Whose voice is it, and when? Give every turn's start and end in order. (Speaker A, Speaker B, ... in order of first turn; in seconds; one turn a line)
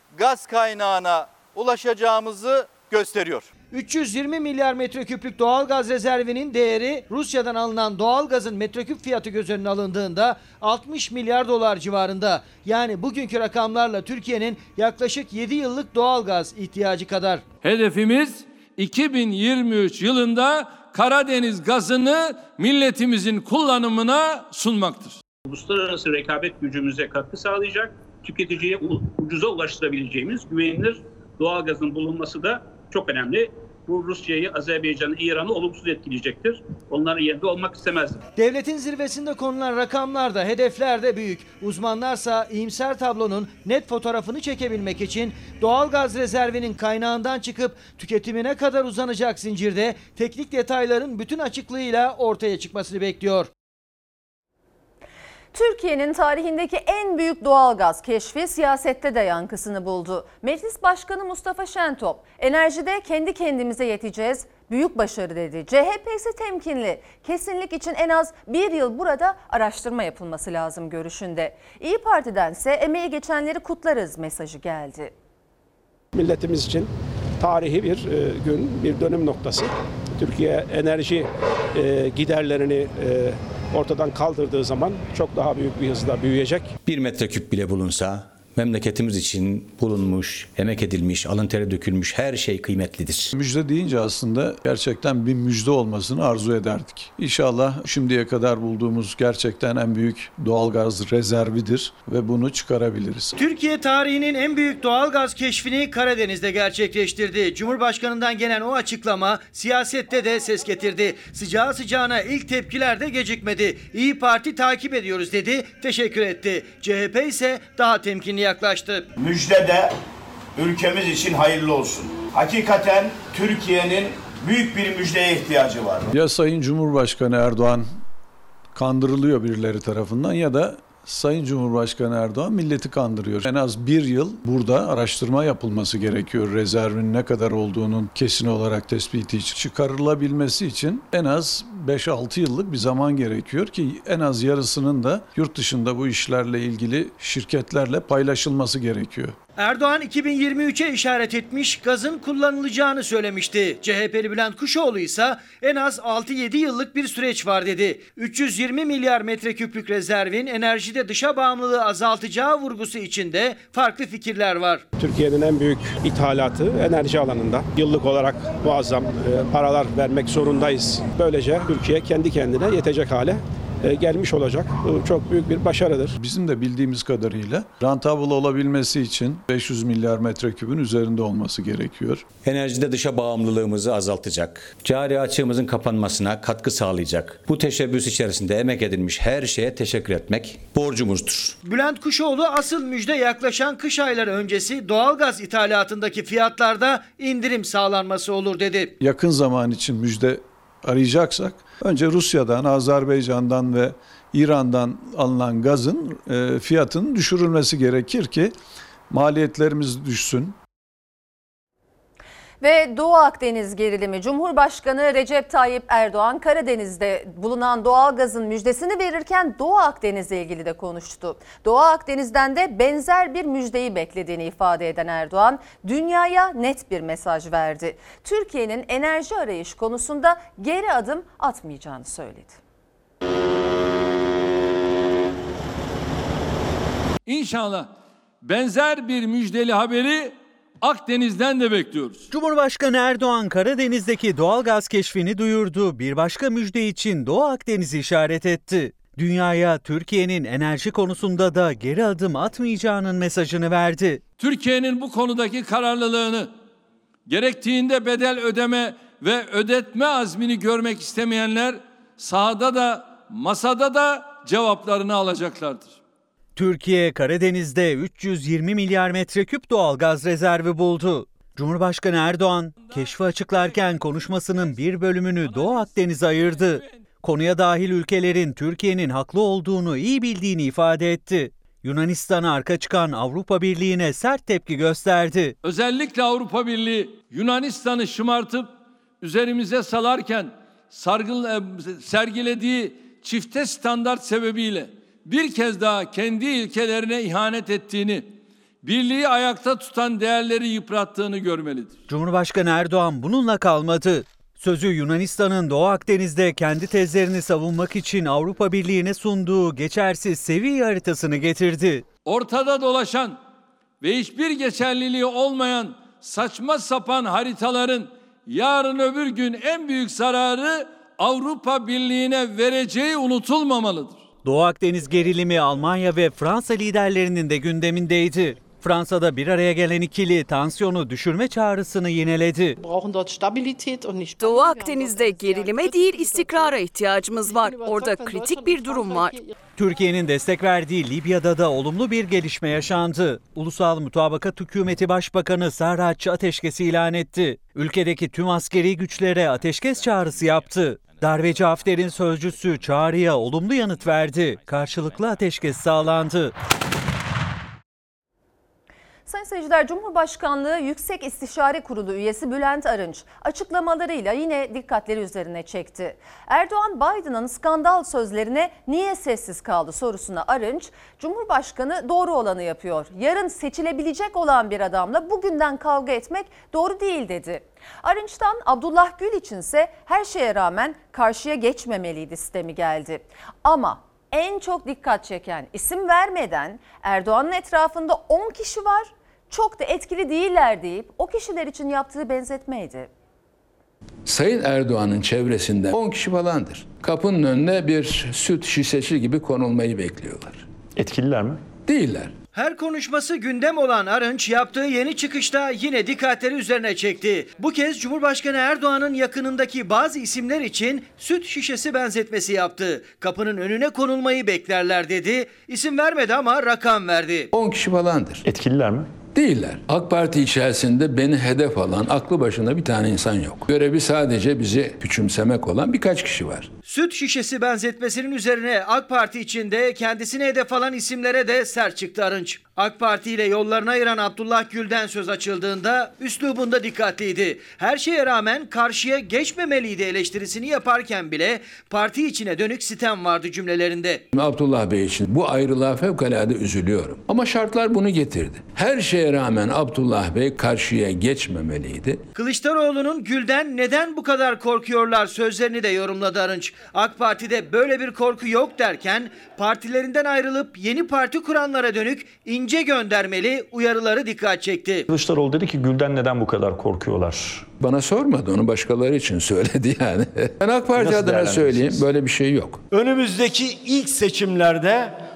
Speaker A: 3.7-17.4
Speaker B: 17.6-25.2
Speaker C: 25.4-38.2
Speaker A: 38.4-53.5
Speaker D: 55.5-75.1
Speaker E: 76.2-76.9
Speaker E: 77.4-86.7
Speaker F: 86.9-93.3
Speaker G: 93.3-103.3
Speaker A: 103.4-119.1
Speaker H: 119.2-119.9
Speaker H: 120.5-126.1
Speaker G: 126.1-128.0
Speaker G: 128.7-149.3
Speaker A: 149.6-164.8
Speaker E: 165.0-176.1
Speaker G: 176.2-182.3
Speaker F: 182.5-191.5
Speaker A: 191.6-198.9
Speaker G: 199.0-208.5
Speaker G: 209.1-210.6
Speaker D: 212.6-232.6
Speaker B: 237.3-237.9
Speaker B: 238.4-242.3
Speaker I: 242.3-254.2
Speaker B: 254.4-256.5
Speaker B: 257.3-265.9
Speaker I: 266.6-285.5
Speaker B: 275.4-276.9
Speaker B: 285.6-288.7
Speaker B: 289.2-298.3
Speaker B: 298.8-301.9
Speaker I: 302.1-312.0
Speaker B: 312.2-313.4
Speaker B: 314.0-324.2
Speaker I: 324.4-332.8
Speaker C: 332.8-336.7
Speaker J: 334.4-339.4
Speaker C: 337.6-339.3
Speaker I: 339.8-356.5
Speaker D: 359.2-393.1
Speaker K: 394.2-400.6
Speaker L: 400.9-401.6
Speaker K: 401.9-402.3
Speaker A: 402.5-417.5
Speaker K: 417.5-418.4
Speaker L: 418.4-419.1
Speaker K: 419.3-426.7
Speaker A: 426.8-444.2
Speaker K: 444.3-452.2
Speaker A: 452.3-465.0
Speaker L: 465.1-467.7
Speaker K: 467.8-472.8
Speaker L: 470.9-472.0